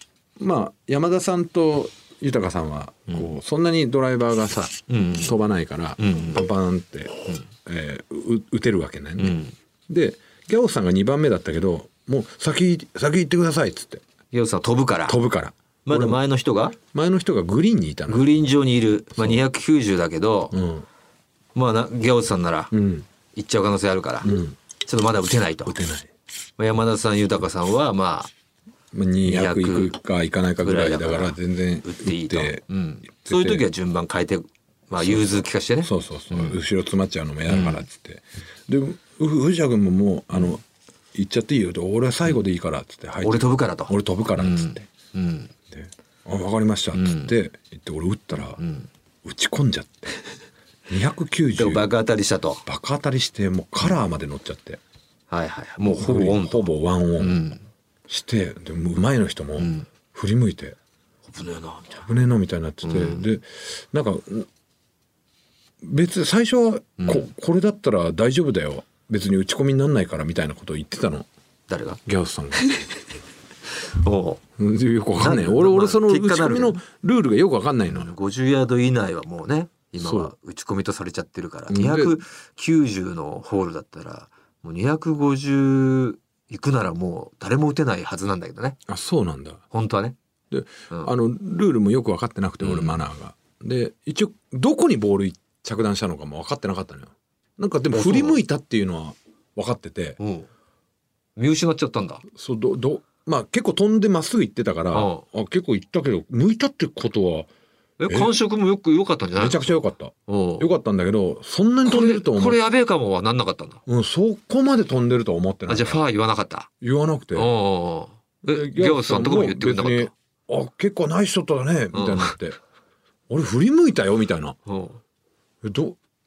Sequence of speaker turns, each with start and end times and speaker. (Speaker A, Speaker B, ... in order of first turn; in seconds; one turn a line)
Speaker A: 0.4-14.0
Speaker B: 4.9-5.3
Speaker B: 6.0-6.4
Speaker B: 9.2-9.5
Speaker B: 14.3-15.2
Speaker A: 15.1-16.2
Speaker B: 15.8-16.8
Speaker A: 16.8-18.2
Speaker B: 18.1-20.6
Speaker A: 20.5-20.9
Speaker B: 21.5-22.7
Speaker A: 22.7-23.1
Speaker B: 23.3-25.8
Speaker A: 24.2-24.6
Speaker A: 25.6-26.1
Speaker B: 26.6-28.3
Speaker A: 28.9-32.6
Speaker B: 29.2-29.9
Speaker B: 30.6-36.6
Speaker A: 33.1-33.6
Speaker A: 35.0-40.6
Speaker B: 37.5-37.8
Speaker A: 41.1-44.9
Speaker B: 43.2-45.5
Speaker A: 45.7-48.6
Speaker B: 46.9-47.3
Speaker B: 48.6-48.9
Speaker A: 49.2-50.2
Speaker A: 50.9-51.9
Speaker B: 51.6-52.6
Speaker A: 52.6-54.8
Speaker B: 55.3-57.6
Speaker A: 55.8-57.4
Speaker A: 58.1-60.8
Speaker B: 59.6-59.9
Speaker B: 61.3-62.0
Speaker A: 62.0-64.5
Speaker B: 62.8-63.2
Speaker A: 65.8-71.3
Speaker B: 67.0-67.3
Speaker B: 71.7-72.0
Speaker A: 72.0-72.8
Speaker B: 72.6-72.8
Speaker B: 73.9-74.4
Speaker A: 74.6-78.1
Speaker B: 75.2-76.8
Speaker B: 77.9-88.8
Speaker A: 80.0-80.3
Speaker A: 81.7-82.2
Speaker A: 88.9-89.6
Speaker B: 89.7-90.2
Speaker A: 90.5-100.2
Speaker B: 92.6-93.0
Speaker B: 97.9-98.4
Speaker B: 100.2-100.5
Speaker B: 101.3-102.2
Speaker A: 102.3-107.5
Speaker B: 104.9-105.2
Speaker B: 108.0-110.7
Speaker A: 109.4-112.6
Speaker B: 111.8-113.8
Speaker A: 113.9-116.0
Speaker B: 115.7-116.7
Speaker A: 116.8-117.5
Speaker B: 117.3-120.1
Speaker A: 118.4-122.6
Speaker B: 121.9-122.3
Speaker A: 123.3-124.6
Speaker B: 124.7-125.0
Speaker A: 125.6-126.0